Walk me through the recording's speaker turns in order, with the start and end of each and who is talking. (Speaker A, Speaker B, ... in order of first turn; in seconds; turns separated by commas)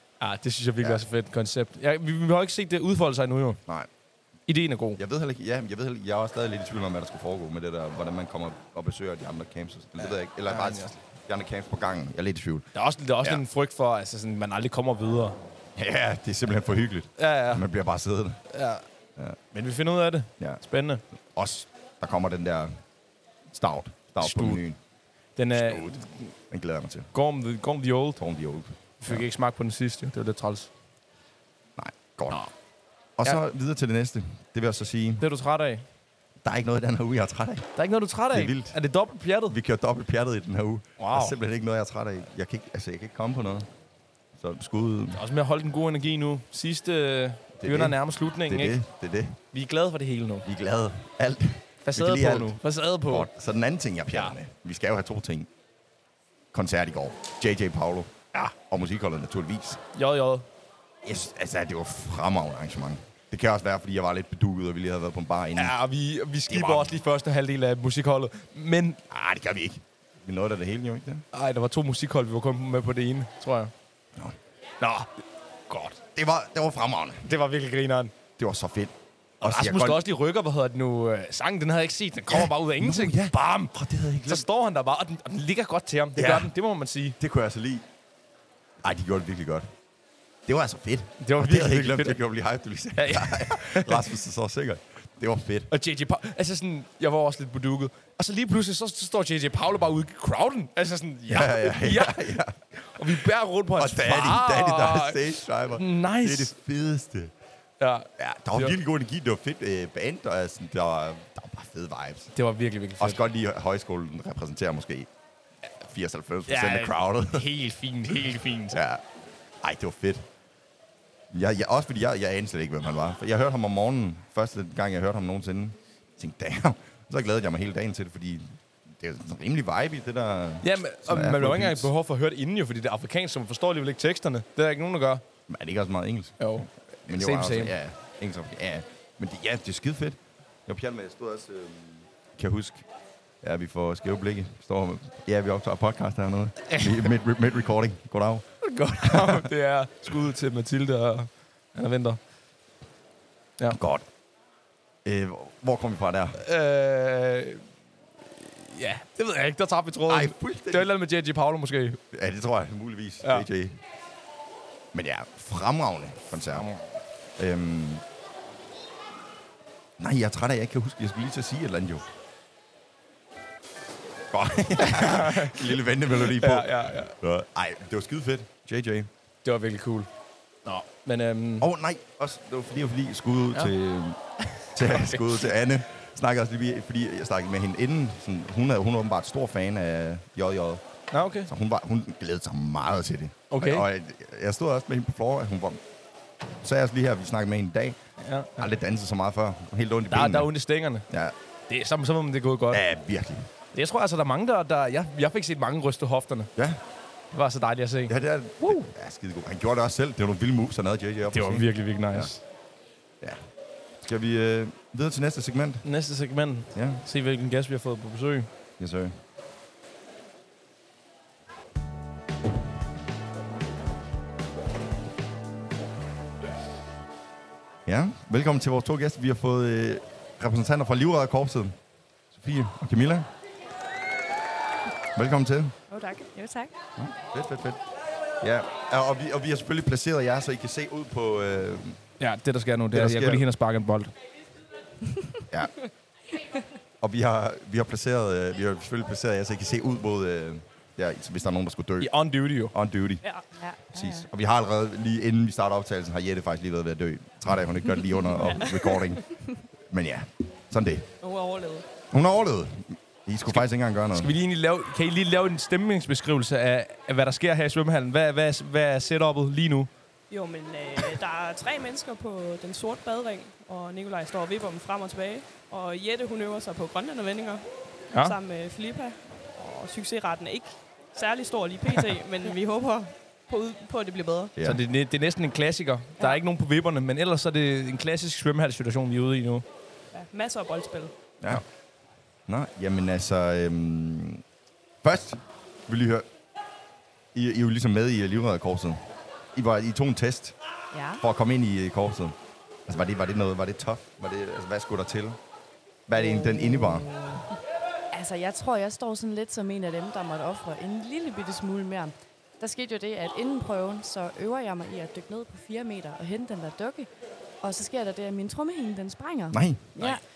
Speaker A: 0.2-3.6, Speaker A: 4.5-5.0, Speaker B: 5.0-12.7, Speaker A: 10.0-11.0, Speaker A: 12.7-15.4, Speaker B: 15.8-18.4, Speaker A: 17.2-17.7, Speaker A: 18.5-18.8, Speaker A: 19.5-21.0, Speaker B: 21.1-22.7, Speaker B: 23.5-24.8, Speaker A: 24.2-24.6, Speaker A: 25.4-26.3, Speaker B: 25.5-27.1, Speaker A: 27.1-28.2, Speaker B: 28.2-29.3, Speaker A: 29.0-30.7, Speaker B: 31.8-32.5, Speaker B: 33.2-35.2, Speaker A: 35.2-35.9, Speaker B: 36.4-37.7, Speaker A: 37.8-39.6, Speaker B: 38.3-38.8, Speaker B: 39.5-43.7, Speaker A: 41.0-41.4, Speaker B: 44.4-45.2, Speaker A: 45.1-48.8, Speaker B: 47.6-49.4, Speaker A: 49.5-50.5, Speaker B: 50.5-55.5, Speaker A: 51.9-53.3, Speaker B: 56.5-59.8, Speaker A: 59.9-60.5, Speaker B: 61.0-65.8, Speaker A: 65.6-69.0, Speaker B: 66.5-67.0, Speaker B: 69.1-71.2, Speaker A: 71.3-73.7, Speaker A: 74.8-75.1, Speaker A: 75.7-76.0, Speaker B: 76.1-77.3, Speaker A: 77.2-78.1, Speaker B: 78.4-80.0, Speaker A: 79.4-87.2, Speaker B: 82.3-84.5, Speaker B: 86.2-86.5, Speaker B: 87.2-87.9, Speaker B: 88.8-89.7, Speaker B: 90.5-95.7, Speaker A: 91.2-92.2, Speaker A: 93.0-94.1, Speaker A: 95.7-106.5, Speaker B: 101.3-107.3, Speaker A: 107.8-108.8, Speaker B: 108.2-112.3, Speaker A: 112.3-113.2, Speaker B: 113.0-115.1, Speaker B: 115.8-117.5, Speaker A: 116.5-118.8, Speaker B: 118.7-119.0, Speaker B: 119.6-120.3, Speaker B: 121.3-131.9, Speaker A: 130.6-135.2, Speaker B: 135.5-142.9, Speaker A: 136.4-137.8, Speaker B: 143.4-148.5, Speaker A: 146.7-147.1, Speaker A: 148.6-152.2, Speaker B: 149.0-149.5, Speaker B: 153.7-154.1, Speaker B: 155.1-156.4, Speaker A: 156.4-157.6, Speaker A: 158.4-162.0, Speaker B: 160.1-160.9, Speaker B: 162.1-163.8, Speaker B: 164.9-166.7, Speaker A: 166.5-166.9, Speaker B: 167.4-168.0, Speaker B: 170.0-172.1, Speaker B: 174.3-179.1, Speaker A: 174.8-177.1, Speaker A: 179.4-180.1, Speaker A: 180.7-181.7, Speaker B: 181.6-184.2, Speaker A: 184.5-185.5, Speaker B: 184.7-190.8, Speaker A: 191.1-191.5, Speaker B: 191.5-195.8, Speaker A: 193.5-193.9, Speaker B: 196.6-198.0, Speaker A: 198.2-198.7, Speaker B: 198.6-200.5, Speaker A: 200.1-201.1, Speaker B: 201.1-201.3, Speaker A: 201.7-202.8, Speaker B: 202.7-203.5, Speaker A: 203.7-206.5, Speaker A: 207.3-208.9, Speaker B: 208.1-212.3, Speaker A: 211.3-212.4, Speaker B: 214.0-215.9, Speaker A: 215.8-218.5, Speaker B: 216.7-217.0, Speaker B: 218.8-219.1, Speaker B: 227.9-231.8, Speaker B: 232.3-233.3, Speaker B: 235.2-235.7, Speaker C: 235.9-236.4, Speaker D: 236.3-236.7, Speaker B: 237.0-237.8, Speaker B: 238.4-242.0, Speaker A: 242.2-244.1, Speaker B: 242.9-243.5, Speaker D: 245.1-245.4, Speaker B: 247.0-252.2, Speaker A: 252.0-252.7, Speaker B: 252.7-253.2, Speaker D: 253.6-254.3, Speaker B: 253.9-261.1, Speaker C: 258.5-259.0, Speaker C: 261.2-261.9, Speaker B: 262.1-264.3, Speaker A: 263.5-269.9, Speaker C: 270.3-284.5, Speaker A: 278.1-278.4, Speaker B: 284.6-284.8, Speaker A: 284.6-289.6, Speaker C: 290.1-291.1, Speaker B: 292.5-294.4, Speaker B: 295.0-296.3, Speaker B: 297.3-300.6, Speaker D: 300.9-301.2, Speaker B: 301.2-302.4, Speaker B: 302.9-305.4, Speaker B: 306.1-307.2, Speaker D: 306.2-307.5, Speaker D: 308.1-317.1, Speaker D: 317.6-320.2, Speaker B: 319.5-319.9